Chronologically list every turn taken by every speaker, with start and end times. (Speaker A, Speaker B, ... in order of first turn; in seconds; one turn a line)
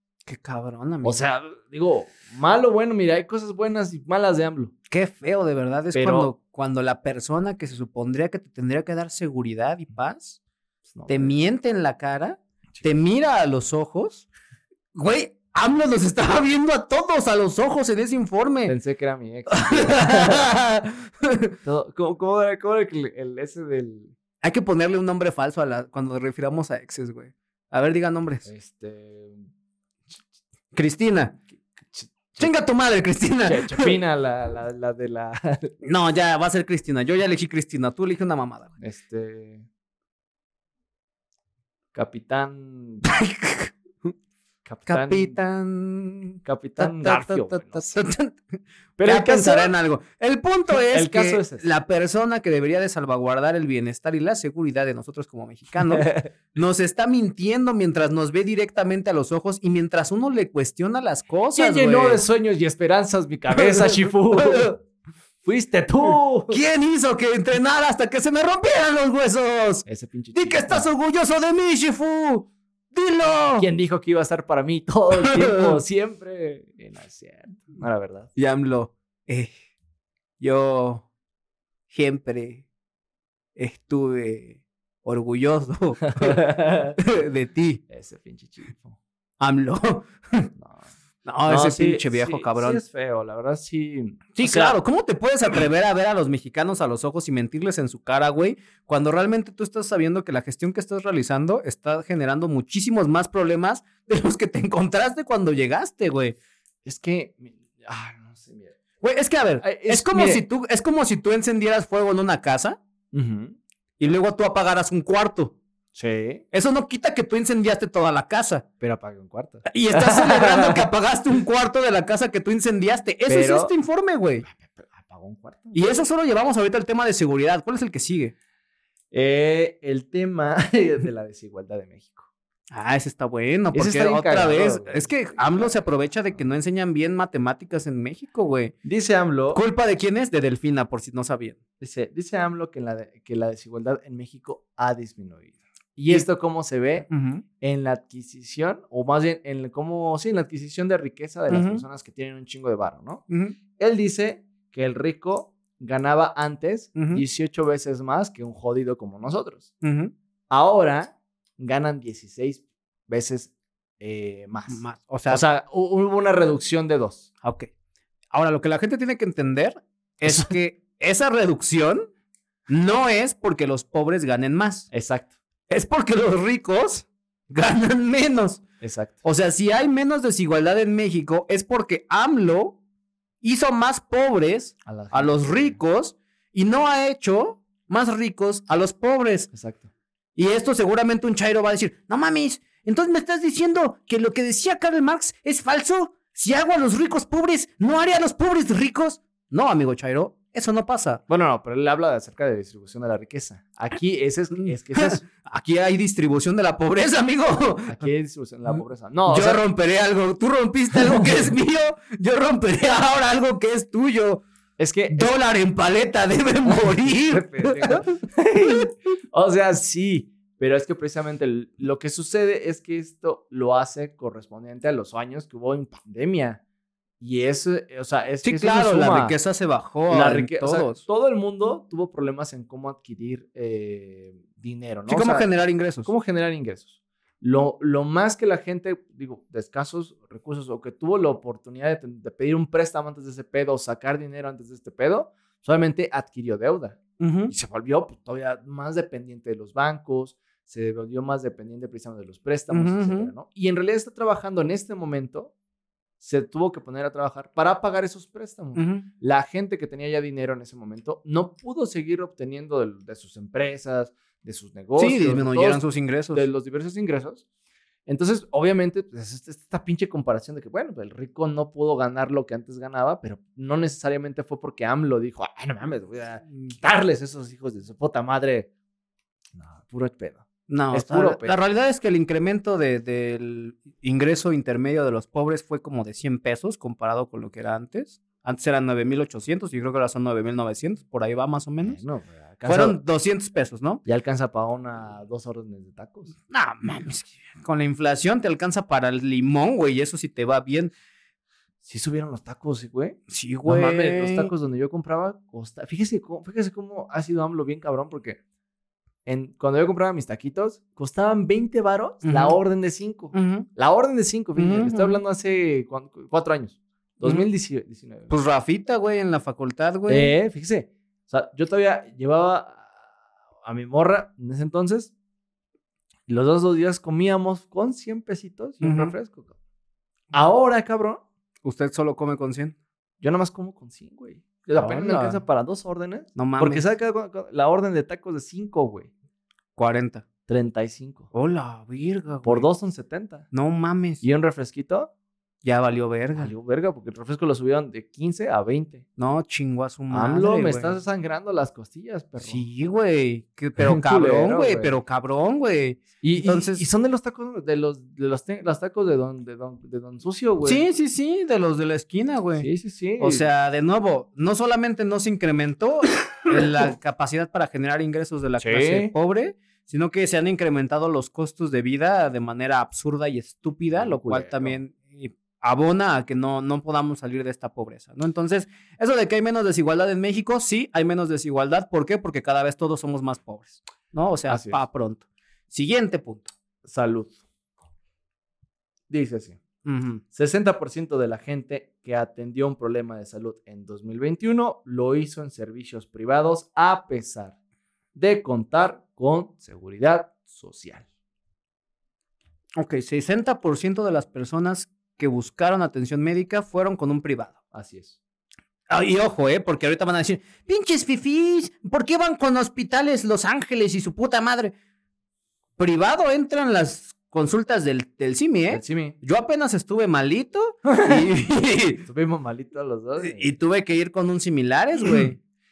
Speaker A: 0.2-1.2
Speaker B: 1.0-4.7
Speaker A: 4.9-10.4
Speaker B: 5.9-6.3
Speaker B: 10.9-11.4
Speaker A: 11.1-14.3
Speaker A: 14.9-18.8
Speaker B: 18.7-20.5
Speaker A: 19.5-21.5
Speaker B: 21.6-24.1
Speaker A: 24.4-28.5
Speaker B: 28.4-29.5
Speaker A: 30.7-31.4
Speaker B: 31.6-32.5
Speaker A: 32.4-34.0
Speaker B: 33.4-35.7
Speaker A: 35.8-38.7
Speaker B: 38.8-39.6
Speaker B: 41.9-43.0
Speaker A: 43.0-44.1
Speaker B: 44.6-45.4
Speaker A: 44.9-48.4
Speaker B: 46.4-48.0
Speaker B: 49.0-49.7
Speaker A: 49.0-62.2
Speaker B: 50.8-51.6
Speaker B: 55.9-56.3
Speaker B: 61.5-64.8
Speaker A: 63.5-64.7
Speaker B: 65.4-66.6
Speaker A: 66.5-73.7
Speaker B: 69.9-70.9
Speaker B: 73.6-78.3
Speaker A: 75.1-75.8
Speaker A: 78.4-79.5
Speaker A: 80.4-81.0
Speaker A: 81.9-82.6
Speaker A: 83.5-87.8
Speaker B: 86.0-87.0
Speaker B: 87.9-89.0
Speaker A: 89.4-90.5
Speaker B: 90.6-90.9
Speaker A: 91.2-92.8
Speaker B: 91.4-94.8
Speaker A: 94.4-106.4
Speaker B: 106.9-108.8
Speaker A: 109.0-112.8
Speaker B: 109.6-110.4
Speaker B: 113.1-113.6
Speaker A: 114.0-115.5
Speaker B: 115.9-116.4
Speaker A: 116.5-118.6
Speaker B: 118.8-120.9
Speaker A: 119.7-124.4
Speaker B: 123.3-123.7
Speaker B: 124.5-125.8
Speaker A: 125.7-128.3
Speaker B: 129.1-132.3
Speaker A: 132.7-138.7
Speaker B: 133.7-135.8
Speaker B: 138.8-139.6
Speaker A: 139.5-141.6
Speaker B: 141.8-147.1
Speaker A: 147.1-147.4
Speaker B: 147.6-153.2
Speaker A: 151.5-151.8
Speaker A: 153.3-153.6
Speaker B: 153.8-159.7
Speaker A: 156.9-157.2
Speaker A: 159.8-160.1
Speaker B: 160.5-167.3
Speaker A: 164.7-165.4
Speaker A: 167.4-167.7
Speaker A: 168.3-172.1
Speaker B: 170.2-170.5
Speaker A: 172.7-174.9
Speaker B: 174.9-175.3
Speaker A: 175.7-178.6
Speaker B: 178.8-179.2
Speaker A: 179.2-182.8
Speaker A: 183.4-189.5
Speaker B: 184.8-185.8
Speaker B: 189.5-189.9
Speaker A: 190.4-201.2
Speaker B: 201.3-205.2
Speaker A: 204.7-208.1
Speaker B: 207.9-209.6
Speaker A: 209.3-214.4
Speaker B: 214.8-215.3
Speaker A: 215.1-218.0
Speaker B: 216.6-226.6
Speaker B: 227.2-229.4
Speaker A: 228.4-231.0
Speaker B: 230.1-235.4
Speaker A: 235.1-236.1
Speaker B: 236.0-255.5
Speaker A: 247.2-247.5
Speaker A: 252.7-253.3
Speaker B: 256.2-265.8
Speaker A: 258.8-259.1
Speaker A: 265.0-266.5
Speaker B: 266.3-267.4
Speaker B: 268.1-278.7
Speaker B: 279.6-281.6
Speaker A: 280.7-292.0
Speaker B: 291.8-293.0
Speaker A: 292.6-294.0
Speaker B: 294.1-296.3
Speaker A: 296.5-300.9
Speaker B: 301.8-308.4
Speaker A: 303.3-304.5
Speaker B: 309.2-318.3
Speaker A: 312.2-312.6
Speaker A: 313.3-313.7
Speaker A: 314.6-315.2
Speaker A: 317.2-317.5
Speaker A: 318.3-320.3
Speaker B: 320.1-322.9
Speaker B: 323.6-325.1
Speaker B: 326.3-329.5
Speaker A: 328.8-329.1
Speaker B: 330.3-331.2
Speaker A: 331.6-332.8
Speaker B: 333.2-339.1
Speaker A: 334.8-335.4
Speaker A: 336.4-336.8
Speaker A: 339.8-340.2
Speaker B: 340.5-341.3
Speaker A: 341.3-342.7
Speaker B: 342.4-343.5
Speaker A: 343.5-344.2
Speaker B: 344.2-345.1
Speaker A: 345.6-346.5
Speaker B: 346.4-349.1
Speaker A: 349.2-351.0
Speaker B: 350.1-352.6
Speaker A: 352.4-356.8
Speaker B: 353.8-354.9
Speaker B: 356.2-360.8
Speaker A: 360.6-362.7
Speaker B: 362.6-363.4
Speaker A: 363.2-386.5
Speaker B: 368.6-369.1
Speaker B: 373.9-374.8
Speaker B: 384.5-384.8
Speaker B: 386.9-387.4
Speaker B: 389.1-389.6
Speaker A: 389.9-390.2
Speaker B: 390.3-397.6
Speaker B: 398.1-401.1
Speaker A: 402.8-407.6
Speaker B: 407.7-408.2
Speaker A: 408.9-414.7
Speaker A: 415.8-422.1
Speaker B: 418.7-419.2
Speaker B: 420.9-421.3
Speaker B: 422.0-423.5
Speaker A: 423.2-425.4